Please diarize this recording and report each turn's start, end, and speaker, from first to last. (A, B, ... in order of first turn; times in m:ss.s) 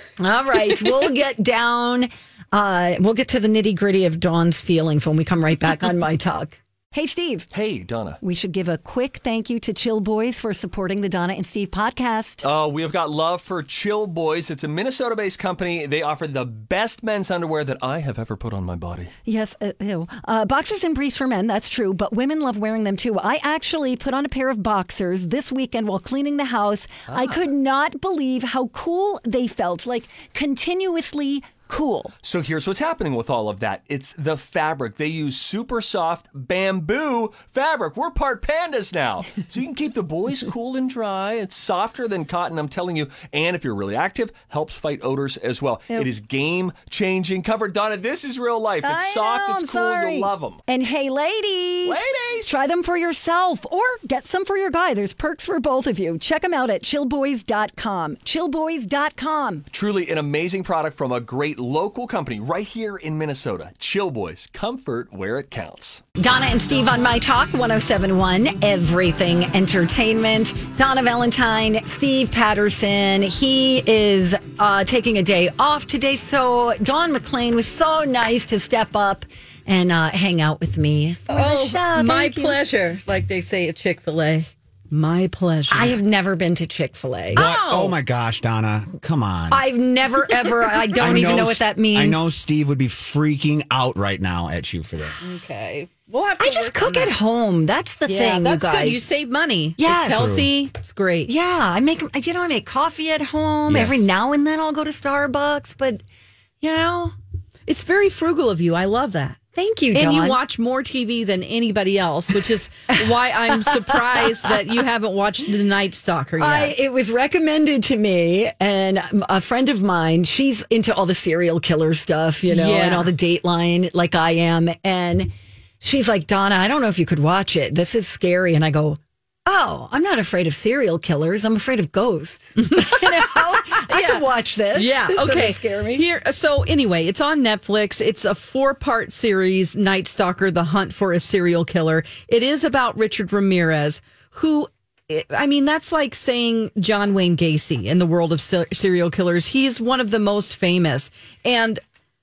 0:00.2-0:07.5 A
0:07.5-0:08.2 B
0:08.2-0:12.5 A
0:12.4-0:19.1 B
0:19.3-0:32.1 A
0:32.2-0:50.6 B
0:48.8-0:59.6 A
0:51.8-0:52.6 B
0:59.7-1:06.0 B
1:06.2-1:22.6 A
1:21.3-1:26.0 C
1:25.7-1:27.4 A
1:27.3-1:28.0 C
1:27.3-1:29.6 D
1:29.5-1:32.2 A
1:31.0-1:31.3 C
1:31.0-1:35.2 D
1:35.2-1:37.2 C
1:36.4-1:39.0 A
1:38.1-1:41.3 C
1:39.8-1:40.4 A
1:40.1-1:40.5 D
1:41.3-1:46.0 A
1:43.7-1:44.1 D
1:46.6-1:47.2 A
1:47.7-1:49.4 C
1:49.6-1:50.4 A
1:49.9-1:56.8 C
1:56.4-2:16.0 A
2:02.5-2:03.1 C
2:12.6-2:31.8 C